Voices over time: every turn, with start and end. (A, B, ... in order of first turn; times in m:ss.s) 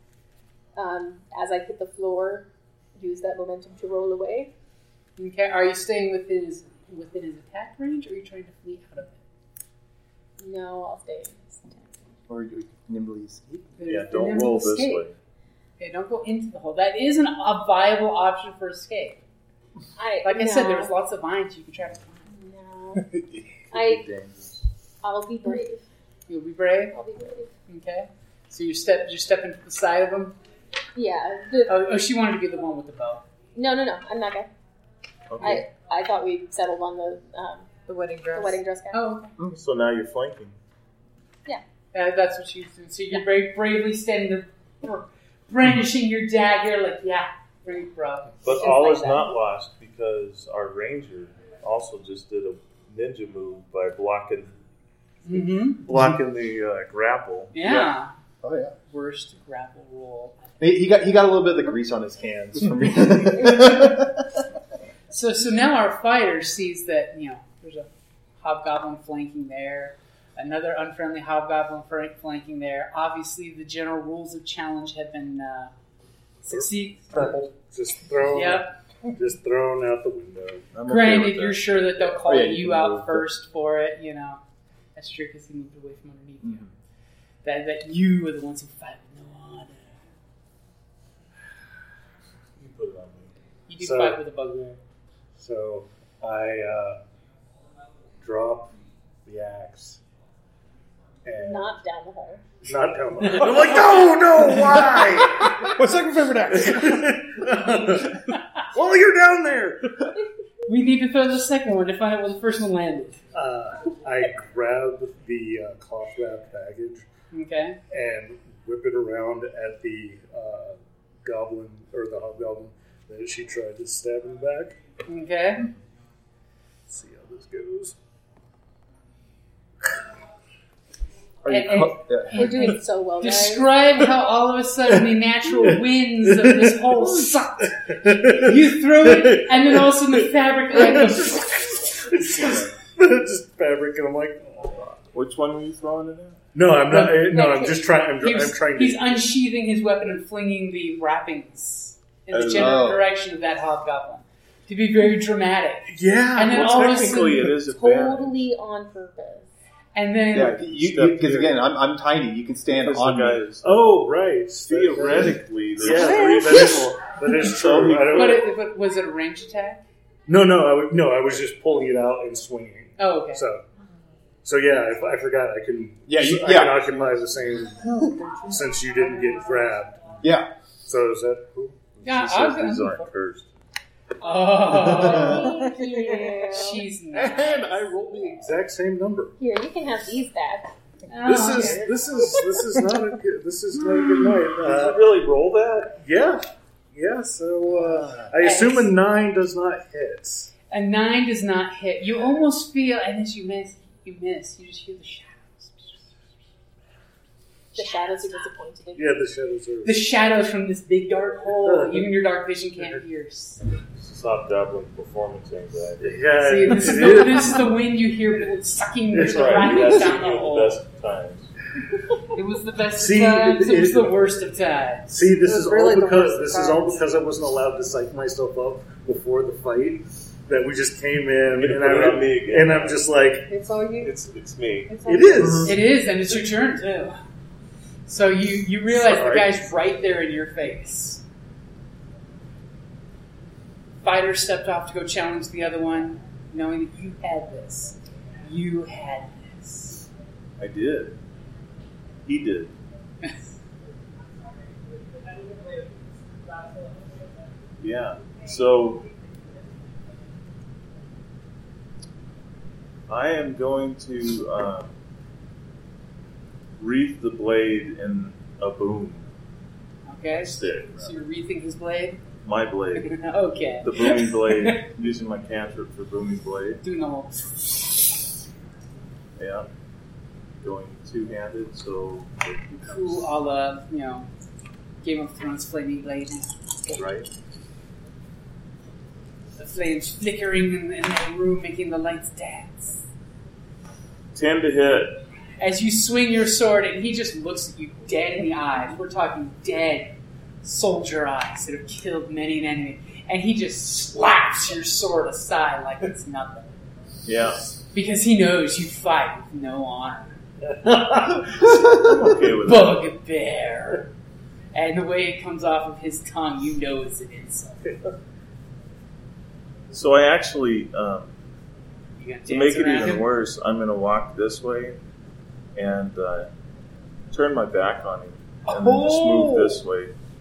0:00.7-0:04.5 A
0:05.2-0:09.2 B
0:10.4-0:11.9 A
0:12.3-0:13.7 C
0:13.8-0:15.0 B
0:13.9-0:15.1 D
0:15.8-0:19.2 B
0:20.0-0:20.9 A
0:20.2-0:22.3 B
0:22.3-0:23.1 A
0:23.1-0:24.6 D
0:23.7-0:24.0 A
0:25.0-0:25.8 A
0:26.3-0:26.9 B
0:26.9-0:27.5 A
0:27.7-0:30.3 B
0:30.9-0:31.7 A
0:31.7-0:33.2 B
0:33.5-0:34.5 A
0:35.3-0:35.6 D
0:35.4-0:37.8 A
0:37.9-0:38.6 E
0:38.3-0:39.2 A
0:38.9-0:39.3 B
0:39.6-0:40.5 D
0:41.9-0:48.3 B
0:48.4-0:54.5 D
0:48.5-0:49.3 A
0:55.2-0:55.8 B
0:55.9-0:57.5 D
0:57.5-0:58.1 B
0:58.4-0:58.7 C
0:58.9-1:00.4 B
1:00.6-1:04.3 C
1:05.1-1:07.9 B
1:08.4-1:15.7 B
1:16.4-1:17.4 B
1:16.5-1:20.7 F
1:18.3-1:18.7 B
1:20.7-1:23.3 C
1:20.9-1:24.4 B
1:25.0-1:26.7 B
1:26.4-1:26.7 C
1:27.4-1:30.0 B
1:32.5-1:33.3 D
1:33.7-1:34.8 B
1:33.8-1:34.7 F
1:35.4-1:37.0 F
1:38.2-1:38.7 F
1:39.2-1:40.0 F
1:41.2-1:41.8 F
1:41.4-1:42.4 A
1:42.6-1:45.7 F
1:43.2-1:43.6 B
1:45.4-1:47.4 G
1:46.6-1:48.2 F
1:48.7-1:49.8 F
1:50.6-1:53.2 B
1:53.3-1:57.1 F
1:57.3-1:57.8 B
1:57.9-2:04.8 F
2:05.1-2:05.7 B
2:06.9-2:08.0 F
2:11.4-2:12.5 C
2:11.5-2:17.7 B
2:12.3-2:13.7 A
2:16.3-2:19.9 F
2:18.3-2:21.7 B
2:20.7-2:25.0 F
2:25.1-2:26.4 D
2:26.5-2:29.2 F
2:27.3-2:27.9 A
2:28.2-2:37.4 B
2:32.3-2:32.8 D
2:32.5-2:33.1 C
2:35.9-2:37.0 F
2:36.5-2:38.4 D
2:37.6-2:39.5 A
2:39.9-2:40.6 B
2:40.3-2:43.4 C
2:40.3-2:41.6 D
2:42.7-2:43.9 D
2:43.6-2:48.5 F
2:44.6-2:48.2 D
2:45.9-2:46.9 E
2:48.1-2:49.8 B
2:50.3-2:53.6 F
2:53.0-2:53.4 B
2:54.4-2:57.8 F
2:56.1-2:57.1 C
2:58.0-2:58.6 E
2:58.5-3:00.2 F
3:00.2-3:00.5 C
3:00.8-3:02.0 F
3:02.0-3:03.1 B
3:02.0-3:03.5 D
3:04.2-3:05.5 B
3:04.8-3:05.2 C
3:05.0-3:06.8 A
3:05.3-3:06.4 E
3:06.5-3:07.8 B
3:07.1-3:09.3 F
3:09.4-3:10.7 A
3:11.1-3:11.9 B
3:11.2-3:15.1 F
3:14.5-3:16.0 D
3:15.9-3:20.5 F
3:17.8-3:18.9 B
3:20.7-3:26.0 B
3:27.7-3:29.2 A
3:28.9-3:30.1 F
3:29.8-3:33.6 B
3:31.6-3:32.1 F
3:34.0-3:36.2 D
3:36.0-3:37.7 F
3:36.4-3:40.8 B
3:39.1-3:40.0 F
3:39.2-3:41.5 D
3:42.3-3:45.3 B
3:42.9-3:44.2 F
3:45.1-3:53.5 F
3:45.4-3:47.1 E
3:51.5-3:53.1 D
3:53.5-3:54.1 E
3:54.0-3:54.9 D
3:54.9-3:55.6 E
3:55.0-3:55.8 F
3:55.4-3:55.7 C
3:55.6-3:57.2 B
3:58.1-4:01.2 B
3:59.0-3:59.5 D
4:04.0-4:10.1 B
4:10.6-4:11.2 D
4:12.2-4:12.7 D
4:17.8-4:19.0 D
4:23.1-4:24.9 D
4:26.8-4:29.2 D
4:30.0-4:32.2 B
4:30.3-4:31.1 D
4:32.4-4:33.1 D
4:33.0-4:34.8 B
4:33.8-4:36.8 D
4:36.8-4:37.9 B
4:39.4-4:39.7 D
4:40.6-4:43.3 D
4:42.8-4:44.3 B
4:45.0-4:47.0 B
4:47.0-4:47.3 D
4:49.6-4:53.0 B
4:54.3-4:55.2 D
4:55.6-5:06.7 B
5:07.2-5:07.6 D
5:07.9-5:10.4 B
5:10.7-5:11.4 F
5:11.8-5:13.1 D
5:12.6-5:14.1 B
5:14.7-5:17.9 B
5:19.9-5:21.3 D
5:22.2-5:23.2 B
5:22.5-5:25.0 D
5:25.7-5:26.5 D
5:27.3-5:30.1 D
5:28.6-5:29.8 B